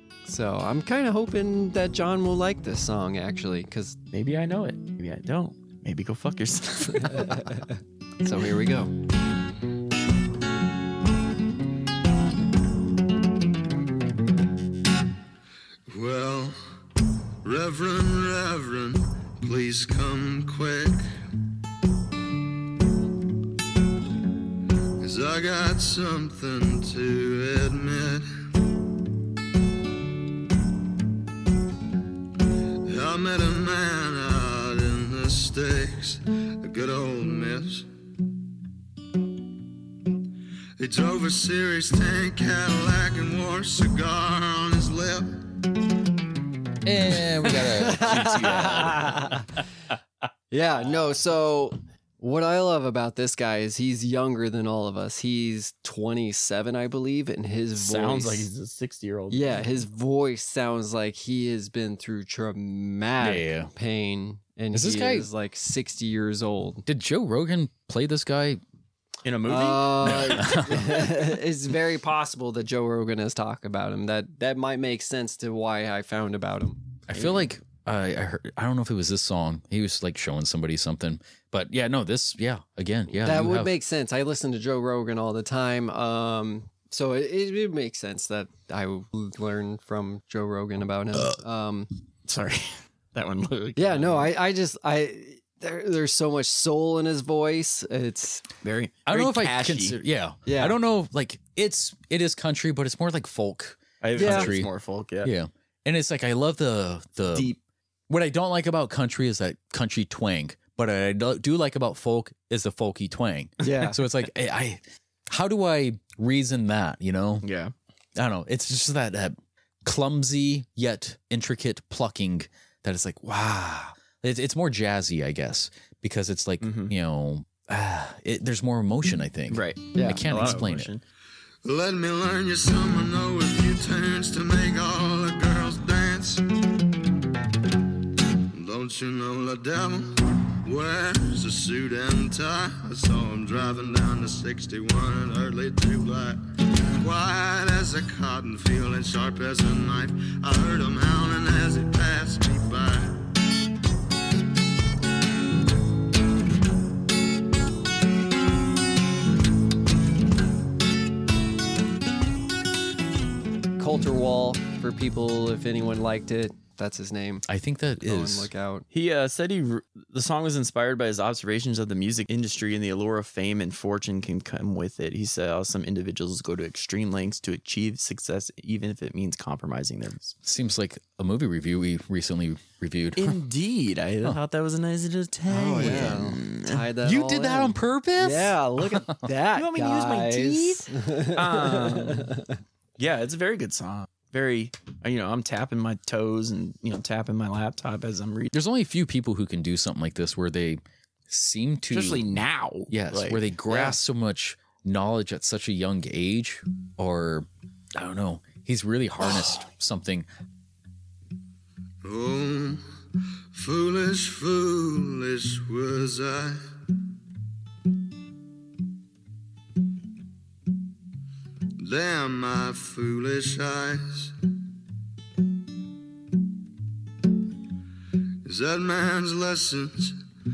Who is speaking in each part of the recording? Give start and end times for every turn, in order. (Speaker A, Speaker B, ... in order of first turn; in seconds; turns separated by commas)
Speaker A: 0.3-4.0, Speaker B: 4.1-7.5, Speaker A: 7.0-8.9, Speaker C: 15.9-16.6, Speaker C: 17.4-21.0, Speaker C: 25.0-28.3, Speaker C: 32.9-37.9, Speaker C: 40.8-45.4, Speaker D: 46.8-49.2, Speaker A: 47.6-49.5, Speaker A: 50.5-58.5, Speaker B: 57.8-59.7, Speaker A: 59.3-66.8, Speaker D: 63.2-63.7, Speaker D: 64.7-65.3, Speaker D: 66.8-68.6, Speaker B: 69.2-70.9, Speaker A: 69.5-76.8, Speaker D: 70.0-71.0, Speaker D: 77.1-83.8, Speaker B: 77.1-77.5, Speaker A: 83.2-91.9, Speaker B: 92.3-94.3, Speaker A: 93.8-98.4, Speaker B: 98.6-100.0, Speaker D: 99.1-104.7, Speaker A: 100.5-100.8, Speaker B: 104.0-105.3, Speaker A: 104.2-104.5, Speaker D: 105.2-107.5, Speaker B: 107.3-107.6, Speaker D: 108.1-117.5, Speaker A: 113.6-114.0, Speaker B: 117.4-117.7, Speaker D: 118.2-130.9, Speaker B: 126.6-126.9, Speaker B: 129.5-131.0, Speaker A: 129.9-130.2, Speaker C: 131.6-136.4, Speaker C: 138.5-146.4, Speaker C: 147.0-153.2, Speaker A: 163.8-167.4, Speaker D: 167.5-168.5, Speaker A: 168.0-168.8, Speaker B: 168.9-180.3, Speaker D: 180.4-183.4, Speaker B: 183.2-186.8, Speaker A: 185.5-192.5, Speaker D: 187.0-189.2, Speaker B: 189.5-192.4, Speaker B: 193.0-198.5, Speaker D: 198.5-202.4, Speaker B: 201.9-203.9, Speaker D: 202.9-210.3, Speaker C: 212.0-212.8, Speaker C: 213.5-216.6, Speaker C: 221.8-224.3, Speaker C: 228.4-230.2